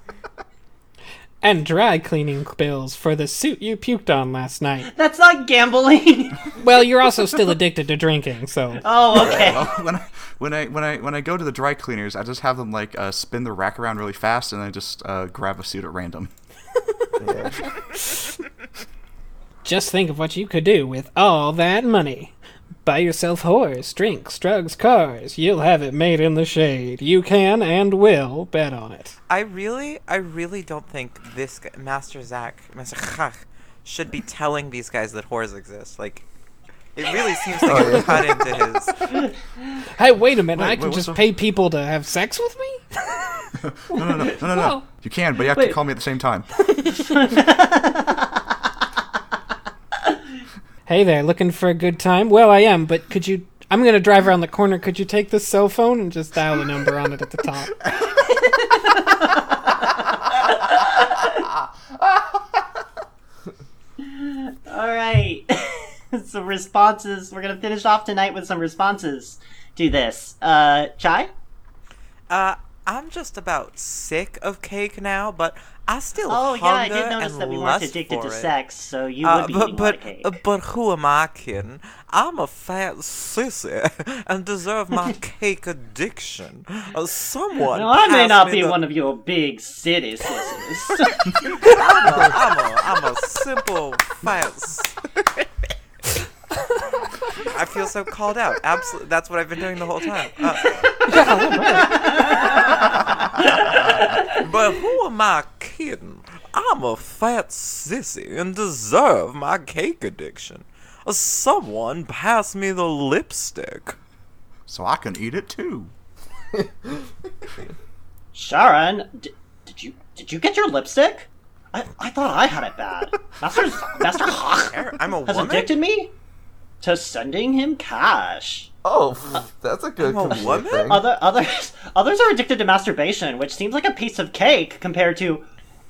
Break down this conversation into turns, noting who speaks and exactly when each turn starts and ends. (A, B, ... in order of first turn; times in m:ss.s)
0:01.4-0:04.9 A
0:04.9-0:06.5 B
0:06.6-0:08.8 A
0:08.8-0:09.7 B
0:09.1-0:09.6 C
0:09.1-0:16.3 D
0:17.2-0:17.6 C
0:19.6-0:29.2 A
0:29.3-0:36.2 E
0:36.9-0:39.0 E
0:37.6-0:38.4 C
0:40.0-0:44.8 A
0:40.5-0:41.3 D
0:43.6-0:46.5 D
0:46.8-0:47.0 A
0:46.9-0:48.4 B
0:50.8-0:57.7 A
0:58.1-1:01.5 B
1:04.0-1:11.3 B
1:12.3-1:18.5 E
1:16.3-1:20.4 B
1:19.2-1:28.8 E
1:27.7-1:31.8 B
1:31.6-1:35.0 E
1:37.4-1:41.0 E
1:40.8-1:44.4 B
1:41.1-1:42.5 A
1:44.3-1:54.0 E
1:54.7-1:55.9 D
1:56.6-1:56.9 C
1:58.3-2:06.1 B
2:04.4-2:05.8 E
2:06.8-2:08.7 B
2:08.8-2:11.1 C
2:10.0-2:10.9 E
2:10.9-2:15.4 B